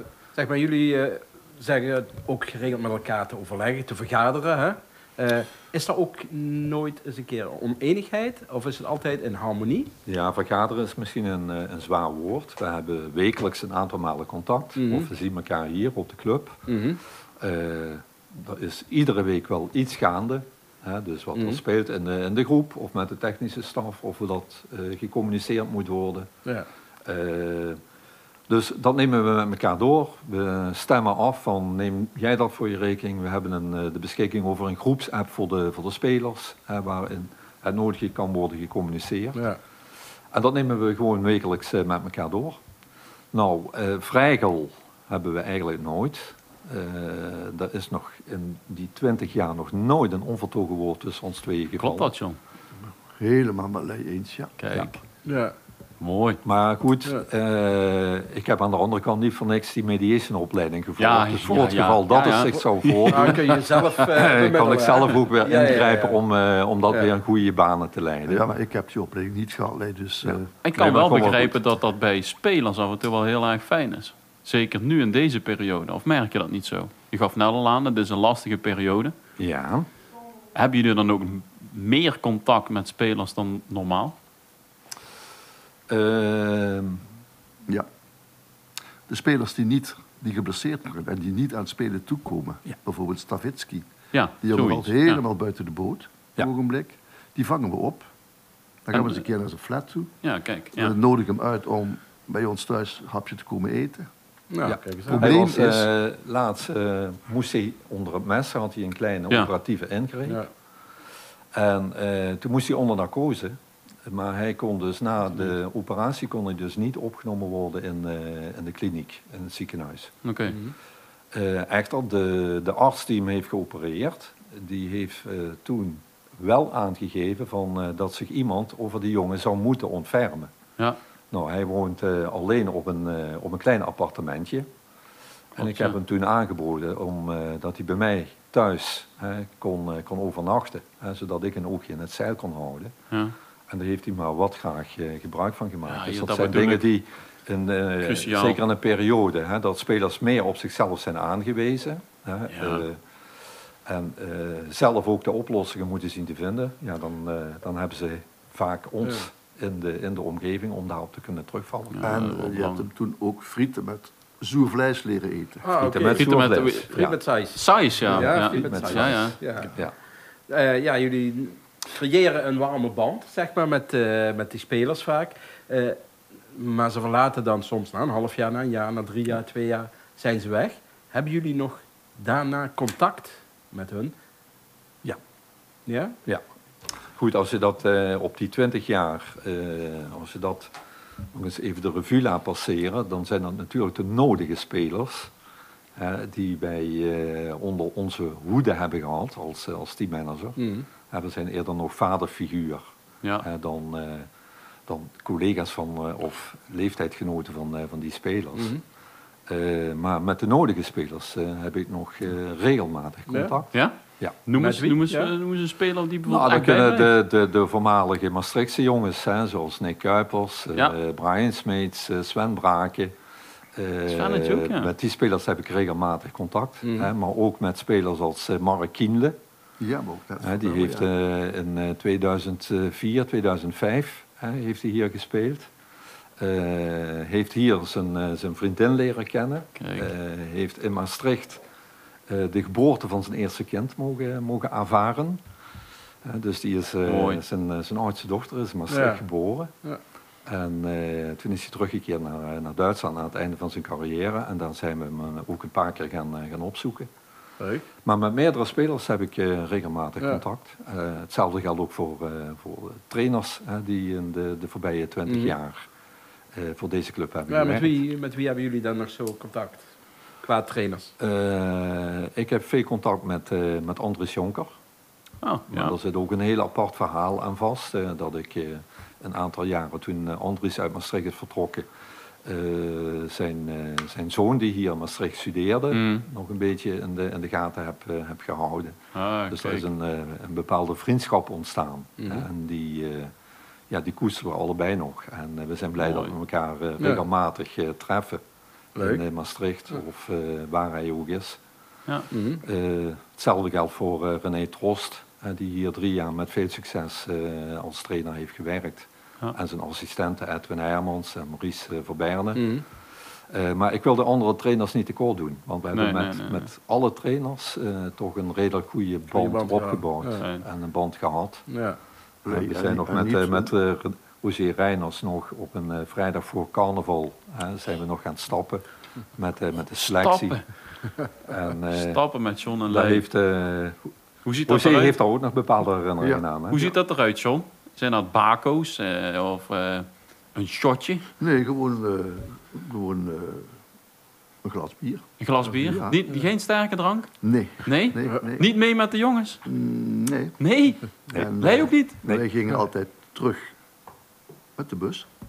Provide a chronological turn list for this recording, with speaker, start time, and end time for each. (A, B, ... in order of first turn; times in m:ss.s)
0:00.4-0:09.9 A
0:10.1-0:16.6 B
0:14.8-0:15.1 A
0:16.7-0:17.0 A
0:17.4-0:26.3 B
0:21.4-0:21.6 A
0:27.0-0:27.8 B
0:28.5-0:39.4 B
0:40.3-0:42.6 B
0:43.3-0:52.1 B
0:51.8-0:52.4 C
0:53.2-0:54.6 D
0:54.6-0:55.0 C
0:55.3-0:55.5 A
0:56.0-0:56.4 C
0:56.4-1:08.4 B
1:01.0-1:03.5 C
1:03.1-1:06.2 A
1:08.3-1:10.5 D
1:10.6-1:19.1 C
1:10.8-1:11.6 B
1:19.4-1:19.9 B
1:20.5-1:24.2 C
1:25.9-1:27.0 B
1:29.1-1:33.9 D
1:34.1-1:35.2 C
1:34.4-1:38.1 D
1:38.8-1:40.1 D
1:38.9-1:39.2 C
1:40.2-1:41.0 C
1:40.8-1:44.1 D
1:44.5-1:45.3 A
1:44.6-1:50.4 B
1:45.1-1:45.9 D
1:51.5-2:00.1 B
2:00.2-2:00.6 C
2:01.3-2:10.5 B
2:11.3-2:14.7 B
2:15.6-2:16.0 C
2:15.6-2:22.9 B
2:23.7-2:33.0 B
2:25.9-2:26.8 C
2:28.0-2:28.6 C
2:32.5-2:32.8 C
2:33.9-2:42.1 B
2:41.9-2:42.9 C
2:42.0-2:45.7 D
2:45.6-2:49.7 A
2:45.8-2:47.2 B
2:46.1-2:49.4 C
2:48.0-2:49.9 B
2:50.5-2:56.0 A
2:56.5-3:04.2 A
3:05.9-3:06.2 A
3:07.2-3:10.8 B
3:11.3-3:15.3 B
3:16.0-3:20.6 B
3:20.6-3:20.9 A
3:21.1-3:22.8 B
3:23.4-3:24.3 B
3:24.9-3:28.8 B
3:28.5-3:28.8 A
3:29.5-3:34.4 B
3:33.3-3:33.5 A
3:34.5-3:37.1 C
3:34.6-3:35.3 A
3:36.3-3:43.1 B
3:43.8-3:49.4 B
3:44.1-3:44.9 C
3:46.8-3:47.1 A
3:49.8-3:51.1 D
3:50.4-3:55.7 B
3:56.4-4:01.6 B
3:59.8-4:00.1 C
4:02.3-4:05.4 B
4:06.2-4:09.7 B
4:07.1-4:07.4 C
4:08.9-4:09.2 A
4:10.4-4:17.1 B
4:18.0-4:25.9 B
4:26.5-4:28.0 B
4:27.5-4:29.9 A
4:30.4-4:31.1 A
4:31.2-4:34.8 B
4:35.4-4:35.9 C
4:35.7-4:41.9 B
4:42.4-4:49.0 B
4:45.9-4:46.2 C
4:49.2-4:49.8 C
4:49.5-4:53.3 B
4:52.2-4:52.5 A
4:53.9-4:58.4 B
4:56.0-4:56.3 C
4:59.0-4:59.2 A
4:59.0-5:01.6 B
5:02.3-5:02.6 A
5:02.6-5:12.8 B
5:12.6-5:12.8 A
5:13.5-5:21.7 B
5:15.9-5:16.7 C
5:19.3-5:20.4 A
5:20.4-5:20.6 C
5:21.7-5:22.0 A
5:22.5-5:23.7 D
5:22.5-5:28.8 B
5:29.4-5:30.6 B
5:30.2-5:30.6 C
5:31.4-5:32.2 B
5:31.9-5:33.2 C
5:32.9-5:34.0 B
5:34.4-5:35.2 C
5:34.7-5:36.9 B
5:36.7-5:41.3 C
5:41.4-5:43.7 D
5:44.6-5:45.2 D
5:45.4-5:49.6 C
5:45.8-5:46.2 D
5:47.4-5:48.7 D
5:49.7-5:50.6 D
5:50.6-5:52.2 C
5:51.3-5:53.8 D
5:54.8-5:55.3 D